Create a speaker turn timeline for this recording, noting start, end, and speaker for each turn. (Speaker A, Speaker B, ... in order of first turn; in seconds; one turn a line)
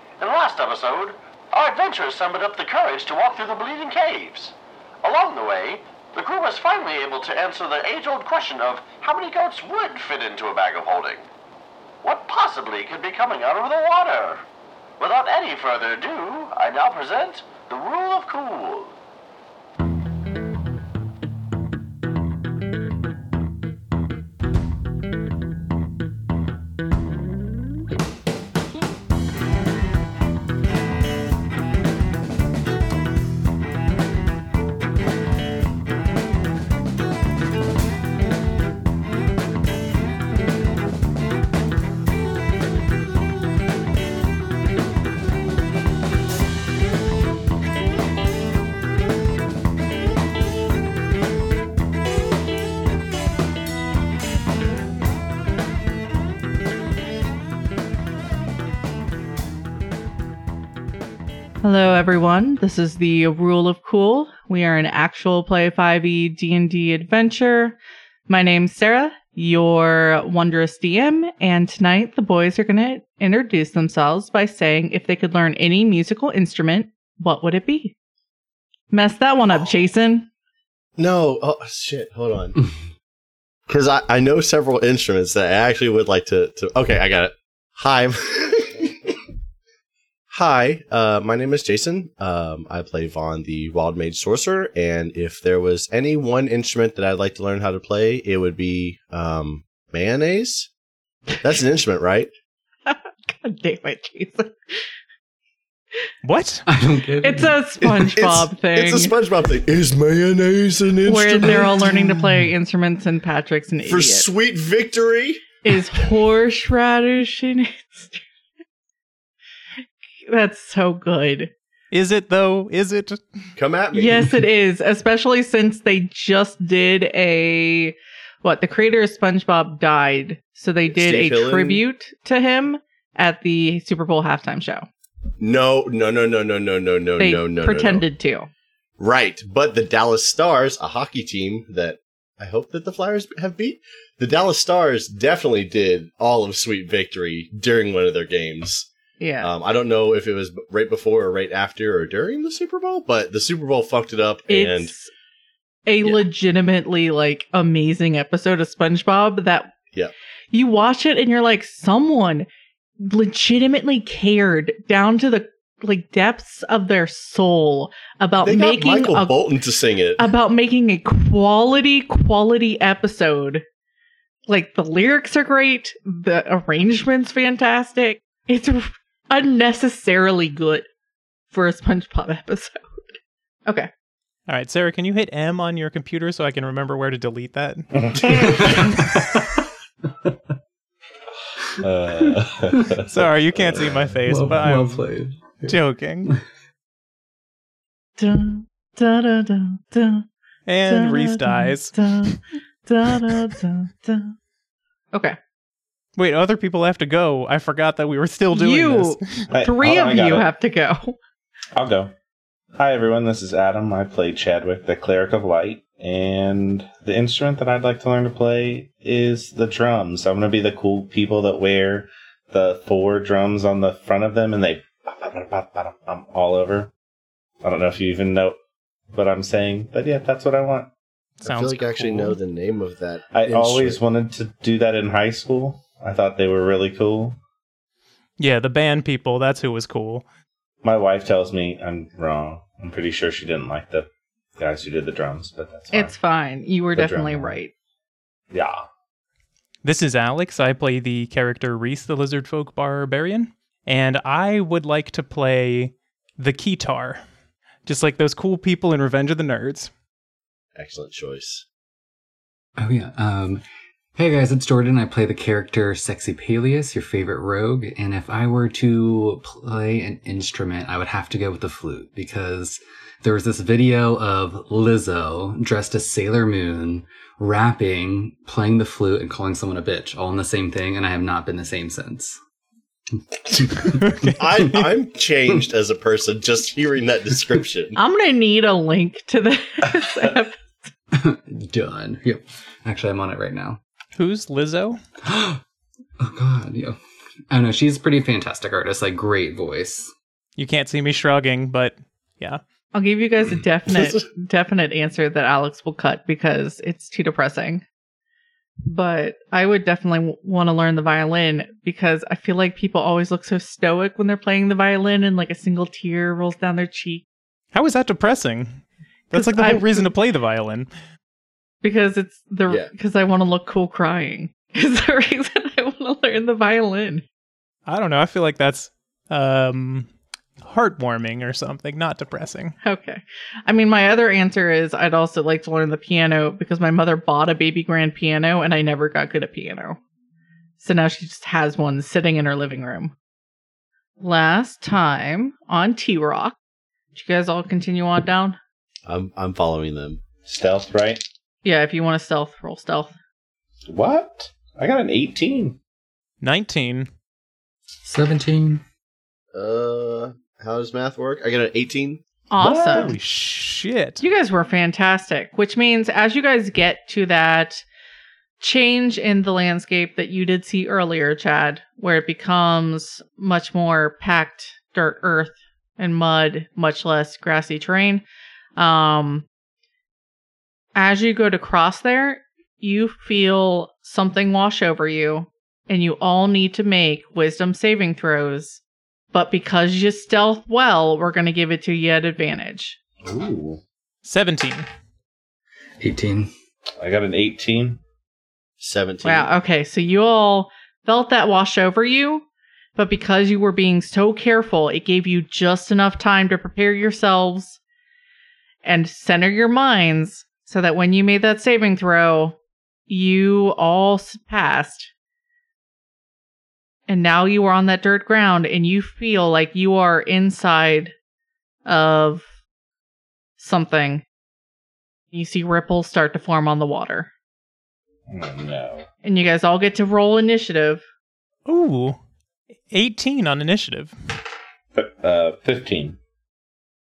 Speaker A: 0.2-11.3
Speaker A: 12.0-14.4
Speaker A: 15.0-18.9
Speaker B: 61.6-67.8
Speaker B: 68.3-77.9
Speaker B: 78.9-80.3
Speaker C: 81.0-82.6
Speaker C: 83.7-88.9
Speaker C: 90.3-100.7
Speaker C: 101.4-102.3
Speaker B: 102.9-104.9
Speaker D: 106.2-106.6
Speaker E: 106.7-107.9
Speaker B: 107.2-109.1
Speaker C: 108.0-112.0
Speaker B: 111.1-114.3
Speaker C: 113.8-115.5
Speaker B: 115.6-118.2
Speaker B: 120.3-121.5
Speaker D: 121.9-123.2
Speaker C: 123.6-124.4
Speaker B: 123.9-134.9
Speaker C: 130.9-131.8
Speaker C: 135.4-138.0
Speaker B: 137.2-138.5
Speaker C: 139.0-148.9
Speaker B: 149.2-149.5
Speaker C: 149.4-154.9
Speaker B: 154.5-155.1
Speaker B: 155.8-159.7
Speaker B: 160.5-162.5
Speaker B: 163.0-169.4
Speaker C: 168.4-170.3
Speaker B: 170.2-173.6
Speaker B: 174.5-180.9
Speaker B: 181.5-182.8
Speaker D: 184.5-187.9
Speaker F: 188.0-188.9
Speaker E: 188.3-189.5
Speaker F: 191.8-193.1
Speaker D: 193.1-195.0
Speaker E: 194.2-195.7
Speaker D: 195.6-196.3
Speaker B: 198.2-200.2
Speaker D: 200.7-202.4
Speaker B: 200.8-204.3
Speaker D: 206.2-209.2
Speaker B: 208.5-211.2
Speaker F: 209.5-210.5
Speaker F: 211.7-212.1
Speaker F: 212.8-226.9
Speaker F: 227.6-228.6
Speaker F: 229.1-230.9
Speaker D: 231.4-232.4
Speaker C: 231.4-234.0
Speaker F: 233.3-237.4
Speaker D: 238.4-240.2
Speaker F: 240.8-246.2
Speaker B: 245.9-247.7
Speaker F: 246.9-247.6
Speaker F: 248.5-248.8
Speaker D: 249.8-257.2
Speaker D: 257.9-259.9
Speaker C: 260.8-261.6
Speaker E: 262.8-263.6
Speaker E: 264.1-282.4
Speaker E: 283.5-284.3
Speaker C: 284.2-288.0
Speaker B: 288.0-290.6
Speaker E: 291.1-293.8
Speaker D: 294.2-295.0
Speaker E: 295.2-295.6
Speaker E: 296.2-297.0
Speaker E: 297.5-300.1
Speaker D: 300.6-302.6
Speaker B: 302.9-307.9
Speaker C: 303.9-304.2
Speaker B: 308.9-317.2
Speaker D: 317.7-320.9
Speaker B: 319.3-320.1
Speaker B: 321.8-327.2
Speaker D: 327.9-330.1
Speaker D: 330.6-332.8
Speaker B: 332.8-340.0
Speaker B: 340.8-343.1
Speaker B: 344.2-346.6
Speaker B: 347.1-348.6
Speaker C: 349.1-350.2
Speaker F: 350.5-351.2
Speaker B: 351.6-353.1
Speaker F: 353.9-355.8
Speaker D: 356.4-357.1
Speaker E: 358.0-358.8
Speaker C: 359.5-362.2
Speaker B: 362.5-363.1
Speaker F: 362.6-363.2
Speaker D: 362.9-364.2
Speaker B: 364.2-367.8
Speaker B: 368.6-378.2
Speaker B: 378.8-379.5
Speaker B: 380.9-388.8
Speaker B: 389.3-393.0
Speaker F: 393.2-393.8
Speaker D: 394.2-394.9
Speaker E: 396.0-396.5
Speaker F: 397.0-398.0
Speaker C: 398.8-399.5
Speaker B: 399.2-407.8
Speaker B: 408.8-412.6
Speaker B: 413.1-415.1
Speaker B: 417.1-421.1
Speaker B: 421.9-422.5
Speaker B: 423.6-424.2
Speaker B: 425.3-427.3
Speaker F: 428.3-429.1
Speaker B: 429.2-431.0
Speaker D: 431.7-432.2
Speaker D: 432.9-434.1
Speaker F: 434.9-436.2